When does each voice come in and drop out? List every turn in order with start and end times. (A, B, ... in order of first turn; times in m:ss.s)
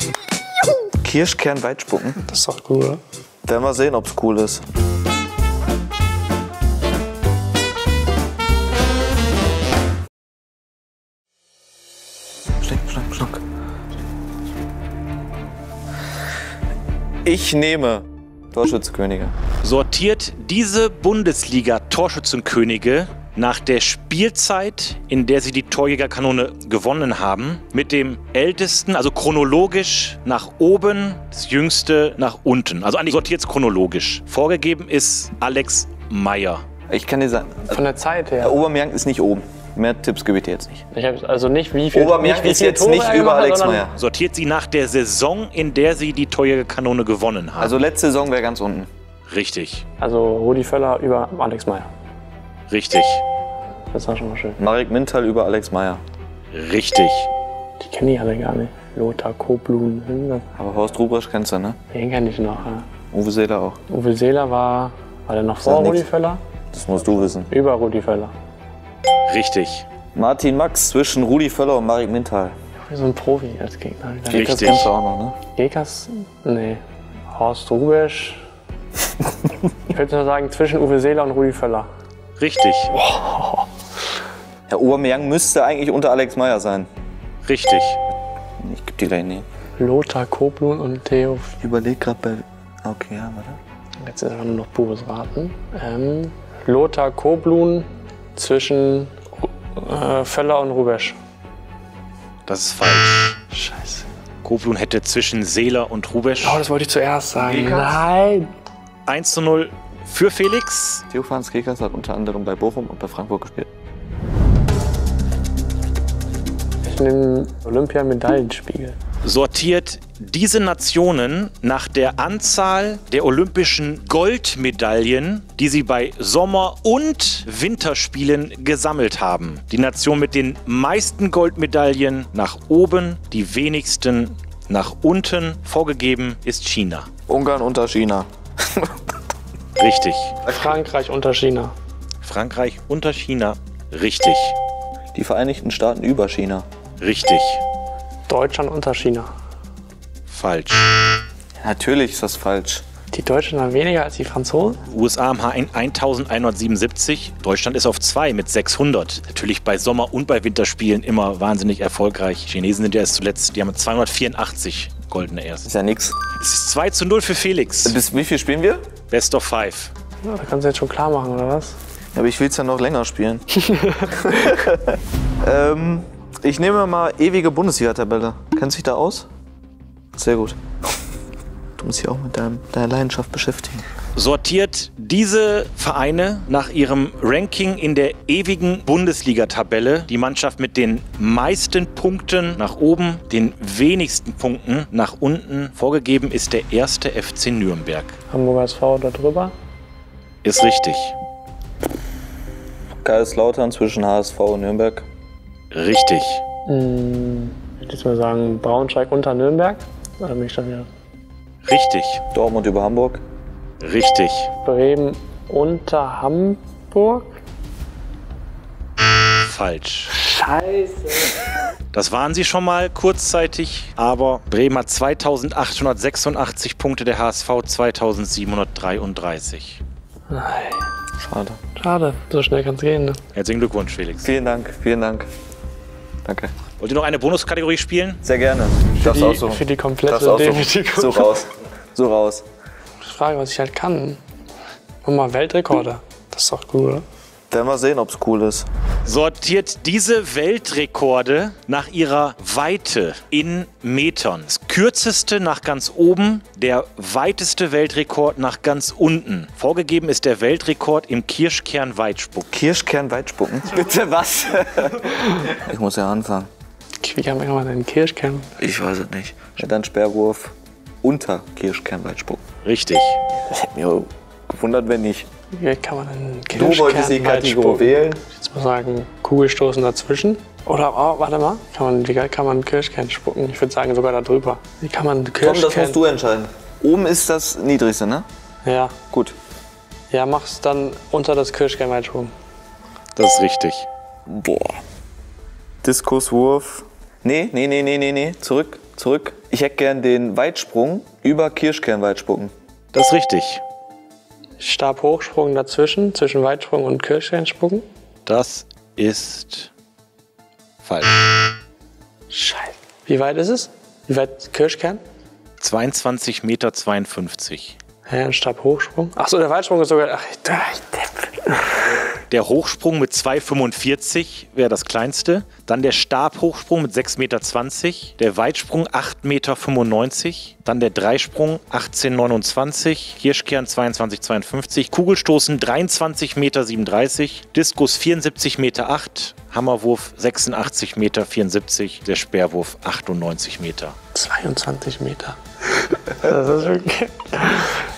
0:01.0-0:02.2 A
0:02.2-0:03.0 B
0:03.4-0:04.6 A
0:12.6-0:13.4 A
0:17.2-0:19.3 A
0:19.6-0:36.6 C
0:36.9-0:37.8 A
0:37.7-0:38.6 B
0:38.4-0:40.8 A
0:40.9-0:43.9 B
0:41.9-0:44.0 A
0:44.0-0:47.8 C
0:47.6-0:48.9 A
0:49.3-0:49.8 C
0:50.0-0:51.9 B
0:52.7-0:53.2 C
0:53.9-0:54.6 B
0:54.6-0:56.0 A
0:56.5-0:57.3 C
0:57.8-1:00.5 B
1:00.6-1:01.8 A
1:01.9-1:02.9 B
1:03.1-1:03.8 A
1:03.9-1:06.4 B
1:05.6-1:06.1 A
1:06.7-1:07.5 A
1:07.2-1:08.3 B
1:09.3-1:09.9 C
1:10.2-1:12.6 A
1:12.9-1:14.8 B
1:14.3-1:15.4 A
1:14.3-1:14.9 C
1:15.5-1:18.4 B
1:19.9-1:21.9 B
1:22.4-1:22.9 C
1:22.9-1:23.7 B
1:24.7-1:26.9 A
1:27.4-1:28.0 C
1:28.6-1:29.5 A
1:29.8-1:31.5 B
1:31.6-1:33.6 A
1:34.0-1:41.2 B
1:42.5-1:43.4 C
1:43.5-1:44.1 B
1:44.4-1:46.6 C
1:46.4-1:48.5 B
1:47.4-1:48.0 A
1:49.1-1:51.0 C
1:51.1-1:53.7 A
1:56.8-1:59.0 B
1:59.2-2:17.1 C
2:17.3-2:19.1 A
2:19.8-2:20.4 C
2:20.5-2:21.7 B
2:22.2-2:24.6 C
2:25.1-2:26.6 A
2:27.0-2:27.6 C
2:28.3-2:29.3 B
2:30.3-2:30.9 C
2:31.6-2:32.8 A
2:33.1-2:34.8 B
2:34.9-2:45.7 C
2:45.7-2:46.2 A
2:46.4-2:48.0 C
2:47.8-2:48.8 A
2:49.1-2:49.9 C
2:50.3-2:51.8 B
2:52.1-2:53.4 A
2:53.6-2:54.2 B
2:54.1-2:59.3 A
3:00.2-3:00.6 A
3:01.8-3:03.8 A
3:04.2-3:18.2 C
3:18.3-3:19.5 B
3:20.4-3:21.2 C
3:23.0-3:25.1 A
3:25.7-3:26.4 C
3:26.7-3:30.9 B
3:31.6-3:32.2 C
3:32.3-3:33.2 A
3:33.8-3:34.5 C
3:34.6-3:37.4 B
3:39.4-3:40.2 C
3:40.1-3:41.5 B
3:41.9-3:49.8 C
3:50.3-3:50.9 B
3:51.2-3:51.6 A
3:51.8-3:53.2 B
3:53.3-3:54.3 C
3:54.2-3:55.3 A
3:56.2-3:56.5 A
3:56.8-3:58.2 C
3:58.2-4:02.4 A
3:59.0-4:01.4 B
4:03.0-4:04.2 B
4:05.0-4:07.0 B
4:07.5-4:08.7 A
4:09.0-4:22.5 C
4:22.5-4:26.5 A
4:27.0-4:28.5 B
4:28.6-4:32.4 A
4:32.6-4:33.2 C
4:33.5-4:35.3 A
4:35.5-4:46.0 B
4:36.5-4:38.2 A
4:45.4-4:48.2 A
4:48.6-4:49.0 B
4:50.1-4:52.3 B
4:53.2-4:53.9 C
4:54.3-4:54.8 A
4:55.8-5:02.5 A
5:02.9-5:03.6 C
5:04.6-5:07.8 B
5:08.3-5:09.7 C
5:10.8-5:11.5 C
5:12.3-5:15.0 B
5:15.6-5:17.8 C
5:18.1-5:22.0 B
5:22.3-5:44.0 C
5:44.1-5:47.8 B